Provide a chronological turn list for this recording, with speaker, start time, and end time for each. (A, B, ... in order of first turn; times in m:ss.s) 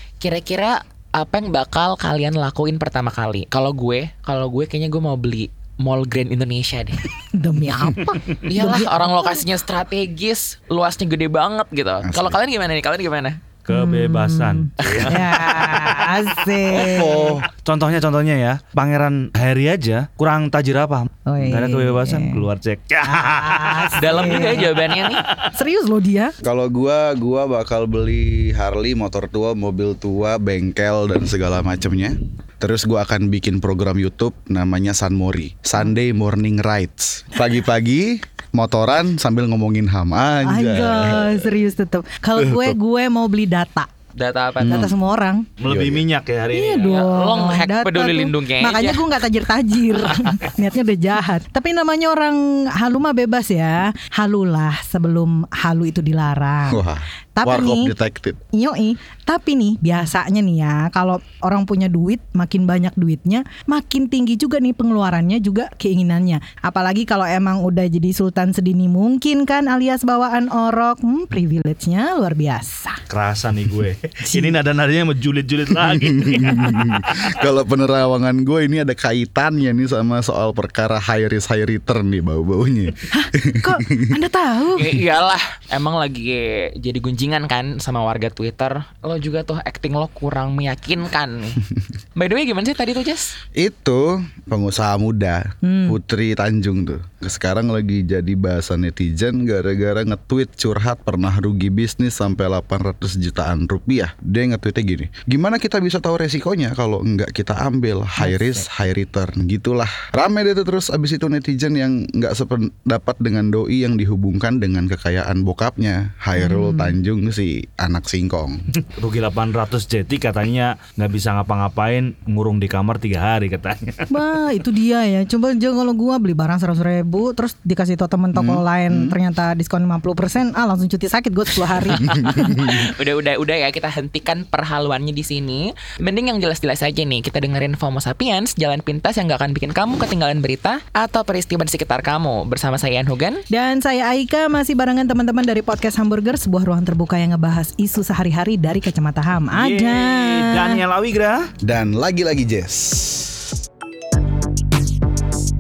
0:00.2-0:07.1 A
0:07.3-0:09.4 B
0:08.4-0:13.4 A
0:12.0-0:12.4 C
0:13.6-0:25.5 D
0:13.7-0:17.4 B
0:16.7-0:17.5 C
0:21.3-0:22.4 B
0:23.0-0:24.8 B
0:24.0-0:25.2 A
0:25.5-0:26.4 B
0:26.4-0:41.5 C
0:40.5-0:43.9 B
0:42.4-0:42.8 C
0:44.2-0:44.9 A
0:44.6-0:44.9 C
0:44.6-0:45.5 B
0:45.6-0:47.0 D
0:45.7-0:46.0 C
0:46.5-0:56.8 B
0:46.8-0:49.1 A
0:56.7-0:58.4 C
0:57.4-0:57.9 B
0:58.5-1:13.0 B
1:13.1-1:17.4 D
1:14.3-1:14.6 B
1:15.9-1:24.1 C
1:23.1-1:24.9 B
1:24.8-1:31.6 A
1:32.2-1:33.3 A
1:33.6-1:58.7 C
1:35.6-1:36.0 B
1:48.2-1:48.7 B
1:56.4-1:57.0 B
1:58.8-2:04.1 D
2:04.1-2:12.5 B
2:08.4-2:09.2 C
2:11.9-2:23.4 A
2:12.2-2:12.8 C
2:23.5-2:30.8 B
2:29.5-2:31.5 D
2:31.6-2:33.5 C